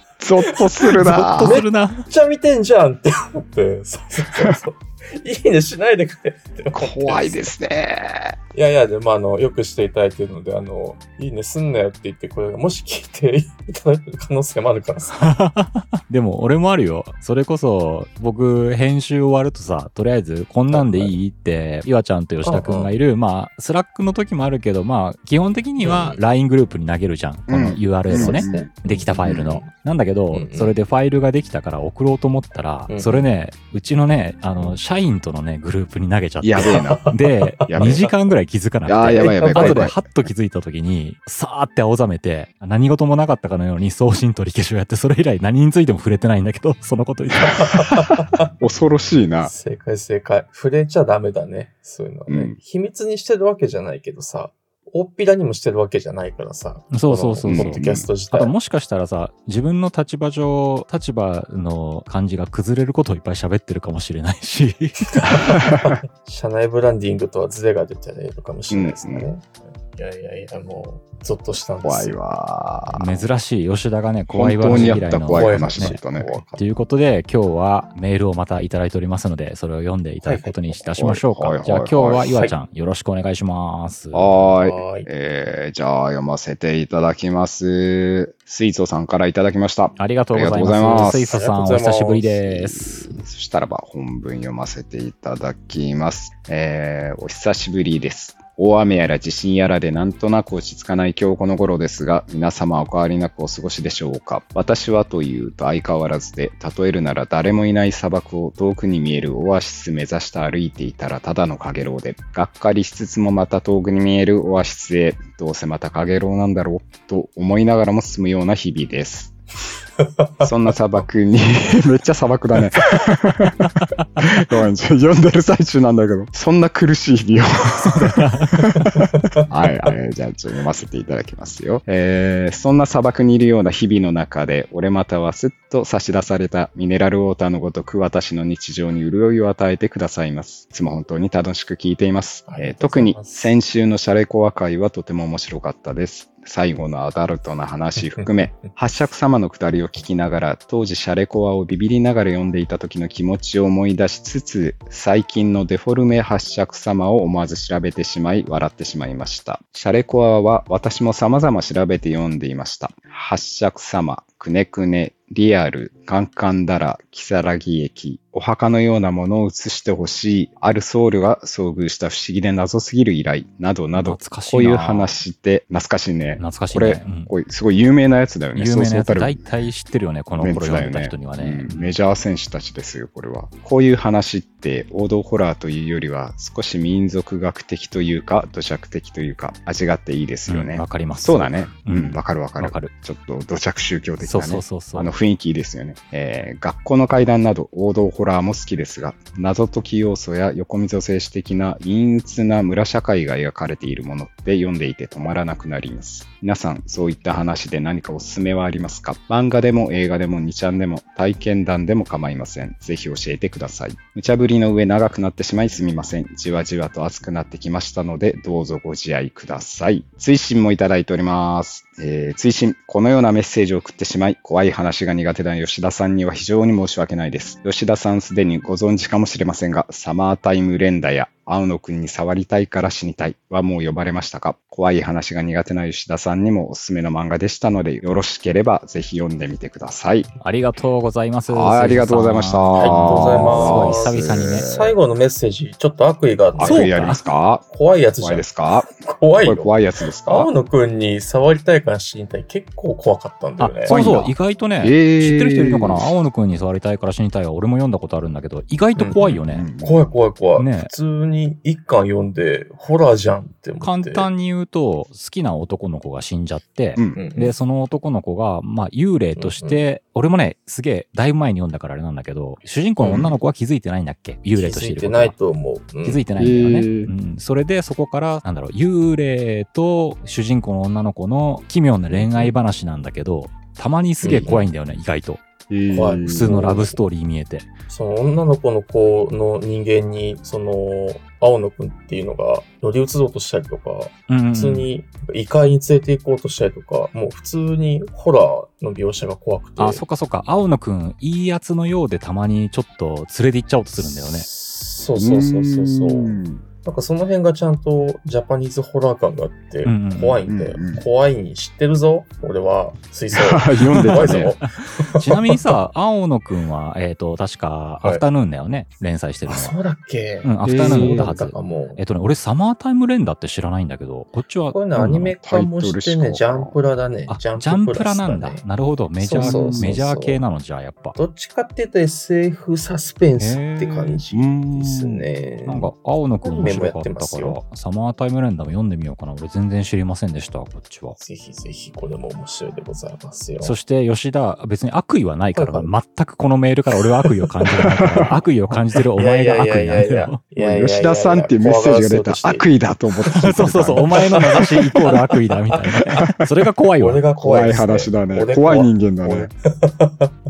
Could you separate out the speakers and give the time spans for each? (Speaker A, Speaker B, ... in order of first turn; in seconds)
Speaker A: 0.2-1.6, 6.7-8.3, 27.5-28.7, 29.2-29.6, 36.4-37.1, 37.7-38.1, 38.9-40.0, 48.6-49.5, 52.3-52.5, 57.4-58.1, 68.7-69.3, 71.8-73.2, 74.3-76.4, 80.9-82.3, 84.1-91.3, 92.5-119.3, 120.4-179.4, 180.4-240.3, 241.5-245.0, 246.6-247.7, 248.2-248.9, 249.4-250.5, 253.9-256.1, 259.5-259.9, 266.9-267.2, 273.1-273.3, 276.4-277.1, 284.2-284.5, 285.7-286.8, 305.2-306.6, 310.5-311.0, 313.3-314.5, 320.6-321.3, 325.4-326.8, 329.4-329.9, 334.3-335.2, 347.9-348.2, 350.6-354.6, 357.4-359.5
Speaker B: 0.4-7.5, 8.5-15.3, 20.7-21.1, 22.4-22.9, 25.8-26.2, 28.1-29.7, 30.3-30.7, 32.9-33.2, 36.6-38.1, 39.1-39.9, 47.4-48.4, 49.4-58.5, 65.2-72.2, 74.7-76.7, 80.2-80.8, 82.2-82.5, 84.3-85.1, 90.7-92.4, 129.0-129.4, 142.5-143.5, 242.8-247.0, 247.7-254.0, 259.0-264.3, 267.1-267.5, 269.4-269.9, 273.0-273.3, 274.6-276.2, 282.1-282.5, 284.2-284.6, 285.9-287.0, 287.9-300.0, 304.0-315.6, 319.5-322.0, 324.7-328.6, 329.2-330.4, 331.1-337.6, 341.2-343.8, 345.5-345.9, 347.3-348.2, 349.1-352.7, 354.0-356.3, 357.0-360.3
Speaker C: 1.0-2.0, 15.2-48.1, 56.9-65.6, 72.9-76.0, 76.6-84.3, 90.0-93.2, 127.8-128.7, 173.9-175.1, 176.4-177.3, 178.5-181.9, 190.5-192.9, 194.2-195.1, 240.4-244.7, 246.6-247.2, 253.6-259.7, 260.6-260.9, 263.8-275.4, 276.0-285.4, 286.2-287.7, 294.3-294.9, 299.8-304.4, 309.8-310.4, 314.0-319.7, 320.4-325.3, 327.3-331.2, 333.4-334.2, 335.6-341.2, 343.6-350.4, 353.3-357.2